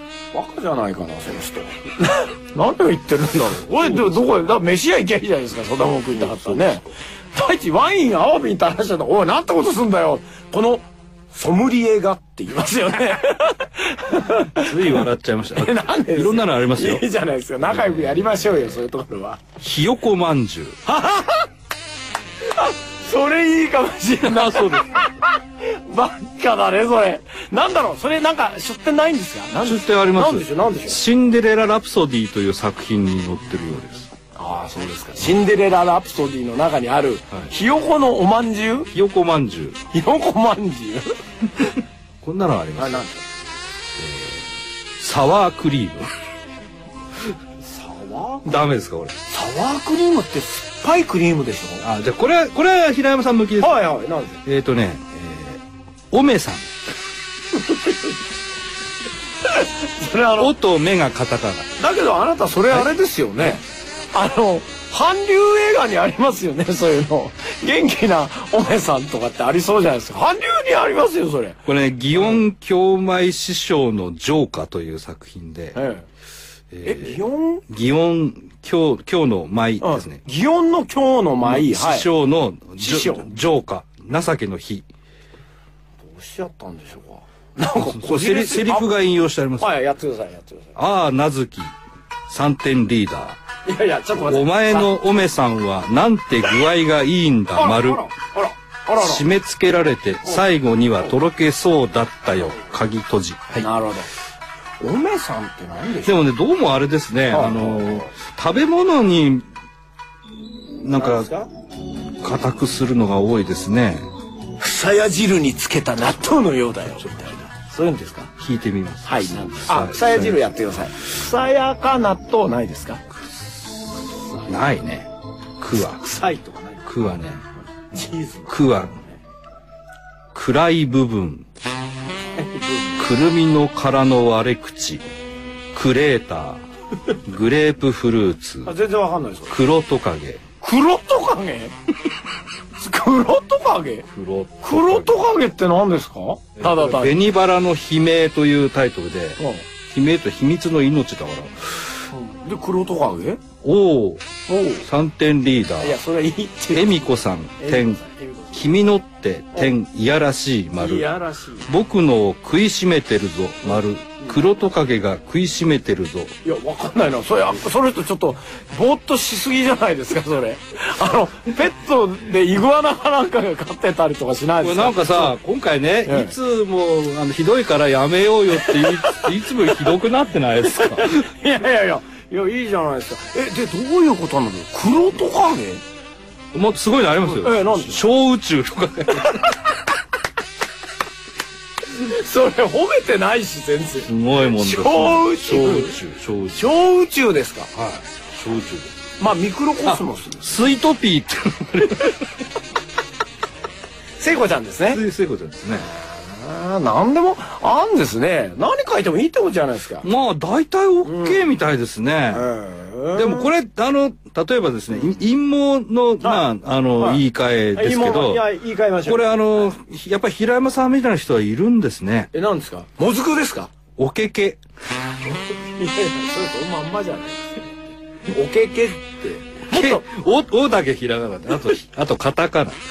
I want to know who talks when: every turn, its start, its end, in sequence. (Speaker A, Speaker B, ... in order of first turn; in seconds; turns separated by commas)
Speaker A: 0.3-19.4, Speaker B: 3.8-4.2, Speaker B: 6.1-6.8, Speaker B: 14.3-17.1, Speaker B: 17.6-18.6, Speaker B: 19.6-20.8, Speaker A: 20.9-21.5, Speaker A: 22.4-31.0, Speaker B: 24.2-25.0, Speaker B: 29.6-34.1, Speaker A: 34.4-38.9, Speaker B: 38.9-39.8, Speaker A: 39.9-41.8, Speaker B: 42.2-43.0, Speaker A: 42.8-43.2, Speaker B: 44.0-44.5, Speaker B: 45.0-46.1, Speaker A: 47.6-48.6, Speaker B: 48.4-49.2, Speaker A: 49.3-51.9, Speaker B: 51.8-53.9, Speaker A: 53.6-54.4, Speaker B: 54.4-56.7, Speaker A: 57.5-58.2, Speaker A: 59.5-60.5, Speaker B: 60.4-61.7, Speaker A: 61.8-71.6, Speaker B: 71.6-75.8, Speaker A: 72.1-72.4, Speaker A: 75.7-76.0, Speaker B: 76.7-80.2, Speaker A: 76.8-77.6, Speaker A: 79.8-82.1, Speaker B: 81.4-84.9, Speaker A: 82.8-83.3, Speaker A: 86.0-88.9, Speaker B: 87.7-89.8, Speaker A: 89.6-90.8, Speaker B: 90.8-91.7, Speaker B: 92.3-93.4, Speaker A: 93.6-94.9, Speaker B: 94.2-98.0, Speaker A: 97.5-99.2, Speaker B: 99.0-103.7, Speaker A: 103.6-104.1, Speaker A: 104.8-106.2, Speaker B: 106.0-109.5, Speaker A: 107.3-108.1, Speaker B: 110.8-111.3, Speaker A: 110.9-111.5, Speaker B: 112.2-114.1, Speaker A: 114.6-118.3, Speaker B: 117.0-117.4, Speaker B: 118.4-120.6, Speaker A: 119.0-123.0, Speaker B: 124.5-126.1, Speaker A: 125.8-126.8, Speaker B: 126.8-127.4, Speaker A: 127.9-129.2, Speaker B: 128.5-129.0, Speaker B: 130.3-131.5, Speaker A: 132.3-133.1, Speaker B: 133.0-135.0, Speaker B: 135.7-136.6, Speaker B: 137.2-138.7, Speaker A: 138.6-139.6, Speaker B: 139.5-140.4, Speaker A: 140.6-141.7, Speaker A: 142.8-144.1, Speaker B: 144.1-145.3, Speaker A: 144.6-147.2, Speaker B: 146.6-152.0, Speaker A: 149.4-149.6, Speaker A: 152.1-153.4, Speaker B: 153.6-154.2, Speaker A: 154.5-154.8, Speaker B: 154.8-156.0, Speaker A: 155.8-157.0, Speaker B: 156.7-158.0, Speaker A: 157.6-158.7, Speaker B: 158.5-161.1, Speaker A: 160.8-161.7, Speaker B: 161.7-166.3, Speaker A: 166.4-175.3, Speaker B: 174.6-181.3, Speaker A: 176.1-176.3, Speaker A: 178.7-179.9, Speaker A: 180.6-185.8, Speaker B: 186.5-189.5, Speaker A: 187.2-188.0, Speaker A: 191.9-195.9, Speaker B: 194.1-196.6, Speaker A: 196.5-197.7, Speaker B: 197.7-198.9, Speaker A: 199.2-200.5, Speaker B: 199.8-202.3, Speaker A: 204.2-205.0, Speaker B: 204.9-205.9, Speaker A: 205.7-210.1, Speaker B: 210.0-212.5, Speaker A: 211.0-211.5, Speaker A: 212.3-213.5, Speaker B: 213.1-218.5, Speaker A: 216.2-216.4, Speaker A: 217.7-219.7, Speaker B: 219.0-222.3, Speaker A: 222.3-223.7, Speaker B: 224.0-224.6, Speaker A: 225.6-227.7, Speaker A: 228.3-230.1, Speaker B: 229.7-232.8